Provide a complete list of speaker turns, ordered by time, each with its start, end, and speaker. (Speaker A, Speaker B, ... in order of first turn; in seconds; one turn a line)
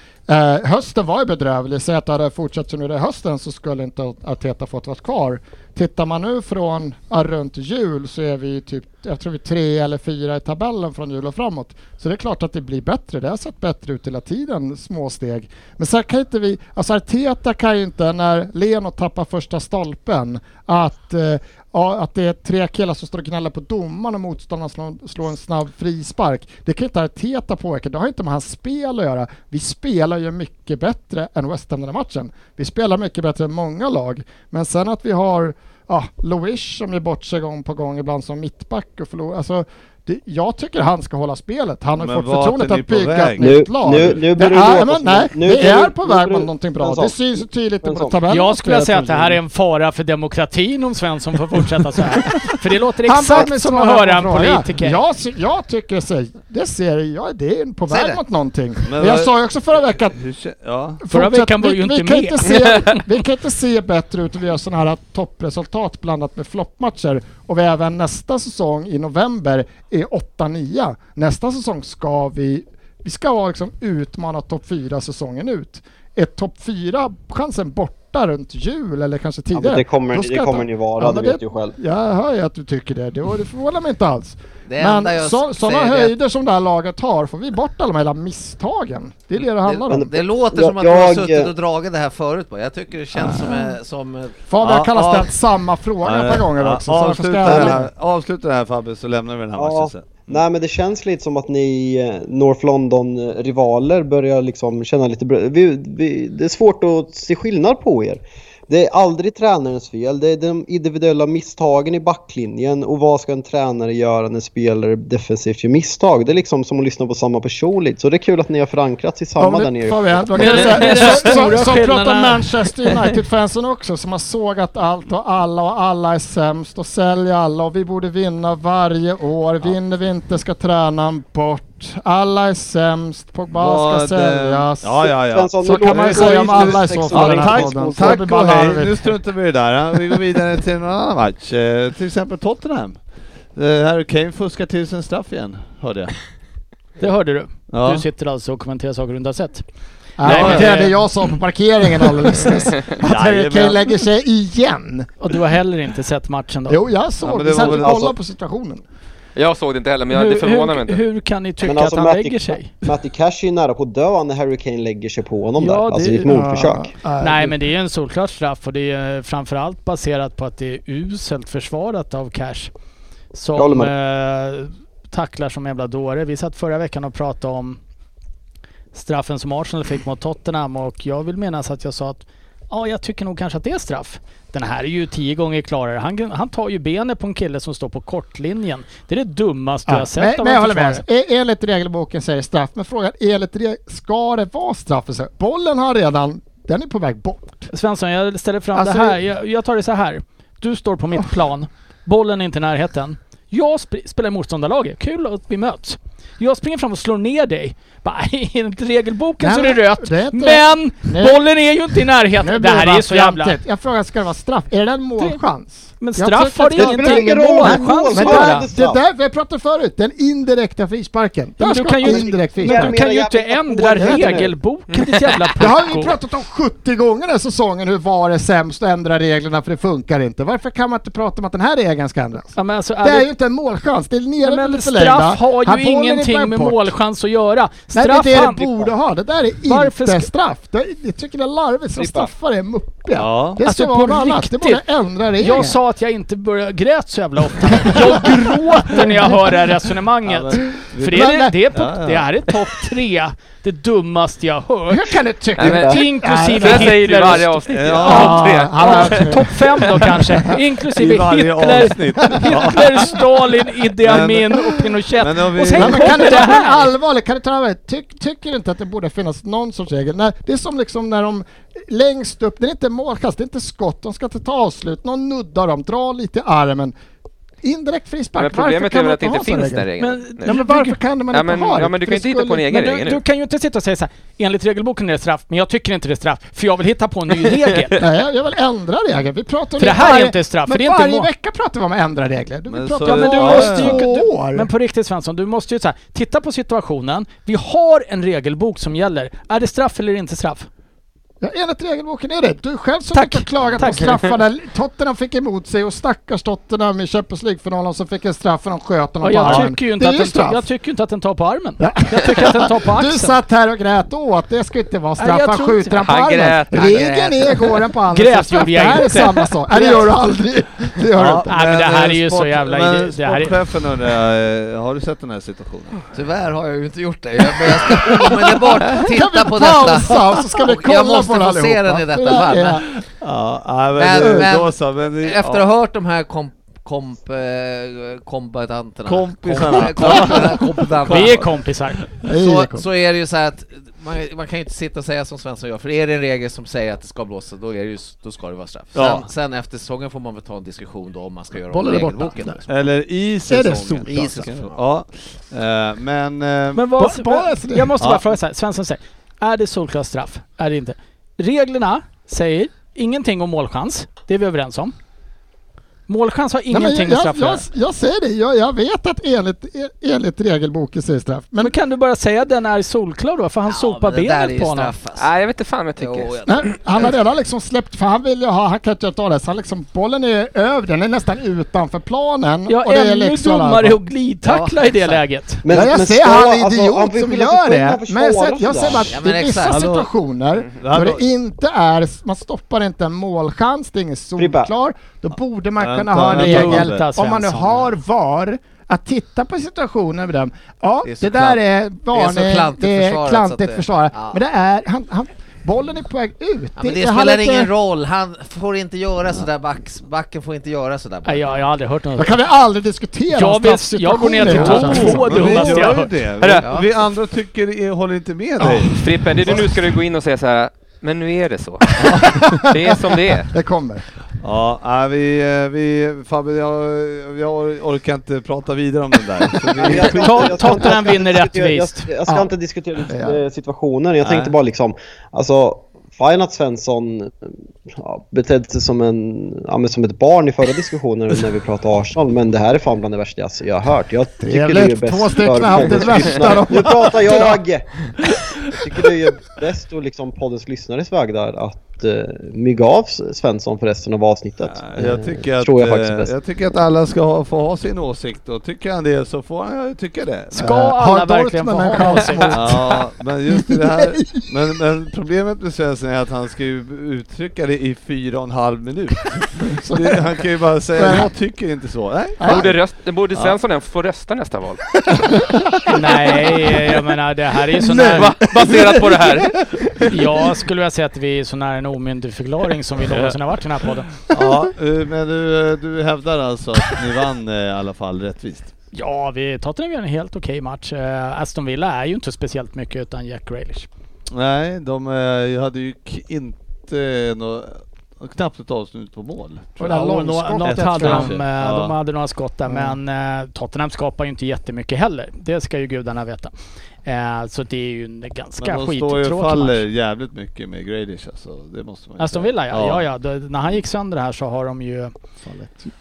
Speaker A: 0.3-49.4
Speaker B: 42.0-43.6
Speaker C: 43.4-48.2
Speaker D: 48.3-55.0
Speaker A: 53.0-60.2
Speaker E: 57.9-58.2
Speaker B: 58.9-59.3
Speaker B: 59.9-61.0
Speaker A: 61.0-90.1
Speaker D: 61.1-63.0
Speaker C: 79.5-81.8
Speaker E: 84.7-86.2
Speaker E: 89.4-94.4
Speaker C: 89.9-91.5
Speaker B: 93.2-93.4
Speaker A: 93.4-93.7
Speaker A: 94.5-97.9
Speaker B: 94.6-95.3
Speaker B: 96.0-100.4
Speaker C: 97.5-97.7
Speaker C: 99.6-121.1
Speaker A: 119.4-139.2
Speaker D: 120.4-123.0
Speaker B: 133.5-143.0
Speaker C: 135.3-138.3
Speaker B: 143.5-146.2
Speaker D: 147.0-149.7
Speaker B: 147.7-148.1
Speaker A: 150.2-155.1
Speaker D: 150.2-151.0
Speaker B: 150.2-150.9
Speaker B: 153.0-153.8
Speaker D: 155.2-156.8
Speaker A: 156.7-158.8
Speaker B: 157.2-158.1
Speaker C: 157.6-158.1
Speaker F: 159.3-161.0
Speaker D: 160.1-162.7
Speaker C: 161.6-166.9
Speaker D: 165.6-166.3
Speaker A: 166.3-167.6
Speaker D: 167.2-172.7
Speaker D: 173.3-177.8
Speaker C: 173.6-173.9
Speaker D: 178.9-191.0
Speaker A: 189.9-197.7
Speaker D: 197.7-213.6
Speaker A: 198.8-199.2
Speaker A: 209.4-211.5
Speaker A: 212.4-222.9
Speaker D: 216.0-218.7
Speaker C: 216.8-219.0
Speaker D: 221.6-226.2
Speaker C: 222.0-224.6
Speaker A: 224.0-224.4
Speaker A: 225.6-236.9
Speaker D: 232.6-233.3
Speaker D: 234.4-238.9
Speaker A: 237.9-245.8
Speaker D: 239.7-240.3
Speaker B: 243.1-243.6
Speaker D: 243.6-244.8
Speaker D: 245.4-255.2
Speaker A: 247.9-248.3
Speaker A: 249.0-249.4
Speaker B: 250.3-252.3
Speaker A: 251.1-251.5
Speaker A: 254.9-257.4
Speaker F: 255.6-260.0
Speaker D: 255.7-266.9
Speaker B: 257.7-258.7
Speaker A: 258.0-260.1
Speaker B: 260.9-263.2
Speaker B: 264.0-266.6
Speaker A: 265.8-277.0
Speaker A: 277.6-279.9
Speaker F: 278.4-280.6
Speaker D: 280.0-281.0
Speaker A: 280.5-282.7
Speaker F: 281.3-283.2
Speaker D: 282.7-288.0
Speaker A: 288.0-294.7
Speaker D: 289.8-291.3
Speaker B: 292.7-294.1
Speaker D: 293.0-300.7
Speaker A: 301.4-310.6
Speaker D: 303.1-304.2
Speaker D: 309.2-313.4
Speaker B: 309.4-309.7
Speaker A: 311.8-321.5
Speaker D: 315.2-315.9
Speaker F: 315.9-317.8
Speaker E: 316.8-317.6
Speaker D: 318.1-319.9
Speaker B: 321.2-326.0
Speaker D: 321.5-323.6
Speaker E: 326.1-333.0
Speaker B: 327.8-328.2
Speaker A: 328.8-332.9
Speaker B: 332.8-335.7
Speaker E: 333.9-341.5
Speaker B: 339.1-342.3
Speaker D: 341.1-342.0
Speaker A: 342.3-342.9
Speaker E: 342.3-352.9
Speaker B: 348.9-349.3
Speaker A: 351.7-352.6
Speaker B: 352.7-356.9
Speaker A: 353.5-354.3
Speaker E: 354.1-354.8
Speaker D: 356.7-364.9
Speaker A: 357.0-357.9
Speaker B: 358.0-358.3
Speaker D: 366.1-367.6
Speaker A: 366.7-371.7
Speaker D: 371.6-374.9
Speaker E: 373.7-375.3
Speaker F: 375.2-376.6
Speaker E: 376.0-377.1
Speaker A: 376.5-384.0
Speaker D: 382.7-385.6
Speaker E: 384.5-384.8
Speaker C: 385.6-389.2
Speaker A: 385.7-407.7
Speaker E: 389.1-389.8
Speaker B: 389.7-390.1
Speaker B: 390.8-391.2
Speaker C: 394.4-394.7
Speaker B: 395.8-397.1
Speaker D: 396.3-397.9
Speaker E: 401.1-401.6
Speaker E: 402.1-404.4
Speaker E: 406.8-411.6
Speaker D: 411.2-412.4
Speaker A: 412.2-415.8
Speaker D: 413.4-416.1
Speaker B: 414.5-419.0
Speaker F: 416.4-416.7
Speaker E: 416.6-416.9
Speaker A: 418.6-419.0
Speaker F: 418.9-423.5
Speaker A: 422.1-424.1
Speaker B: 424.4-430.6
Speaker C: 429.8-448.1
Speaker D: 430.0-432.1
Speaker A: 433.1-433.4
Speaker B: 434.2-434.5
Speaker A: 444.5-447.6
Speaker C: 448.6-456.3
Speaker B: 454.7-460.8
Speaker D: 460.5-462.7
Speaker A: 460.6-464.5
Speaker B: 462.5-472.7
Speaker A: 469.7-470.2
Speaker A: 470.9-471.3
Speaker A: 472.4-472.7
Speaker F: 472.4-474.8
Speaker D: 475.9-478.3
Speaker A: 477.8-479.5
Speaker F: 478.1-480.1
Speaker D: 480.1-484.2
Speaker B: 484.3-488.7
Speaker D: 488.9-493.9
Speaker B: 494.3-500.1
Speaker A: 499.8-501.4
Speaker D: 499.8-506.5
Speaker B: 500.6-502.0
Speaker A: 502.7-503.0
Speaker D: 507.0-509.9
Speaker B: 508.6-513.0
Speaker D: 512.2-515.1
Speaker A: 515.5-515.9